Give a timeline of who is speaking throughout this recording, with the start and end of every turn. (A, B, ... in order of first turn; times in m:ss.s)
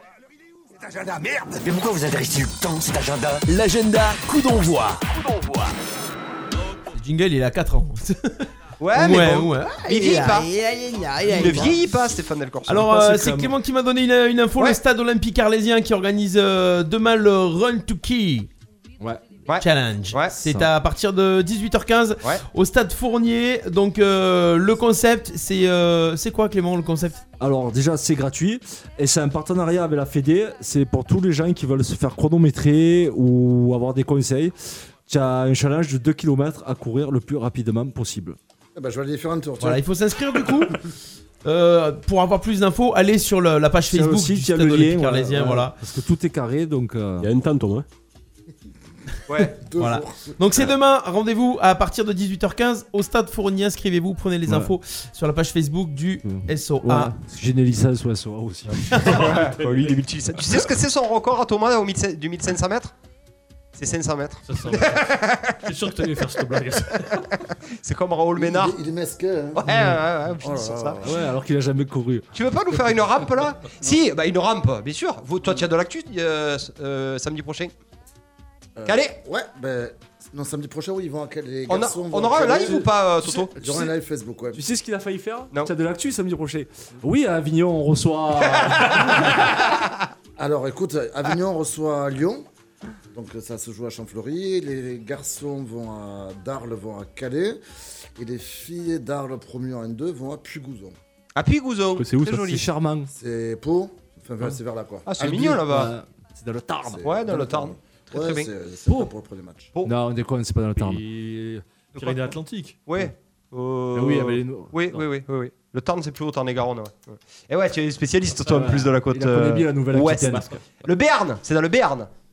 0:00.9-0:03.4 A
0:03.5-0:05.7 B
0:06.9-0:08.3 C
0:08.8-0:10.5 D
0:08.9-0:11.8 C
0:11.2-0:13.0 D
0:12.7-0:18.5 C
0:12.8-0:13.5 E
0:19.5-0:20.3 D
0:19.6-0:27.2 C
0:20.3-0:20.7 E
0:27.4-0:34.5 E
0:35.1-0:38.4 E
0:38.7-0:39.8 F
0:39.6-0:40.9 C
0:41.4-0:45.7 C
0:43.9-0:47.3 E
0:47.2-0:47.8 G
0:49.3-0:49.5 D
0:49.6-0:50.4 F
0:49.8-0:57.1 C
0:56.2-0:59.1 E
0:58.9-1:02.9 D
0:59.4-0:59.8 G
1:03.7-1:06.2 D
1:04.4-1:05.0 H
1:05.6-1:07.2 H
1:07.8-1:08.7 D
1:08.4-1:09.9 F
1:09.5-1:11.0 D
1:09.7-1:09.9 E
1:10.4-1:11.2 F
1:11.0-1:12.2 E
1:12.3-1:17.7 D
1:18.8-1:22.9 F
1:18.8-1:19.2 D
1:21.7-1:23.7 D
1:22.5-1:23.9 E
1:23.5-1:24.6 F
1:24.5-1:29.2 E
1:28.7-1:29.9 D
1:30.4-1:32.4 F
1:33.1-1:37.6 F
1:38.2-1:41.0 F
1:41.4-1:42.6 D
1:42.0-1:42.4 G
1:42.3-1:43.1 E
1:43.1-1:45.8 F
1:45.0-1:45.9 D
1:45.6-1:47.0 E
1:46.9-1:49.7 F
1:47.0-1:48.5 D
1:49.8-1:51.0 E
1:50.8-1:52.8 H
1:52.0-2:02.1 D
1:53.9-1:55.0 E
1:58.5-2:00.5 E
2:00.3-2:00.6 G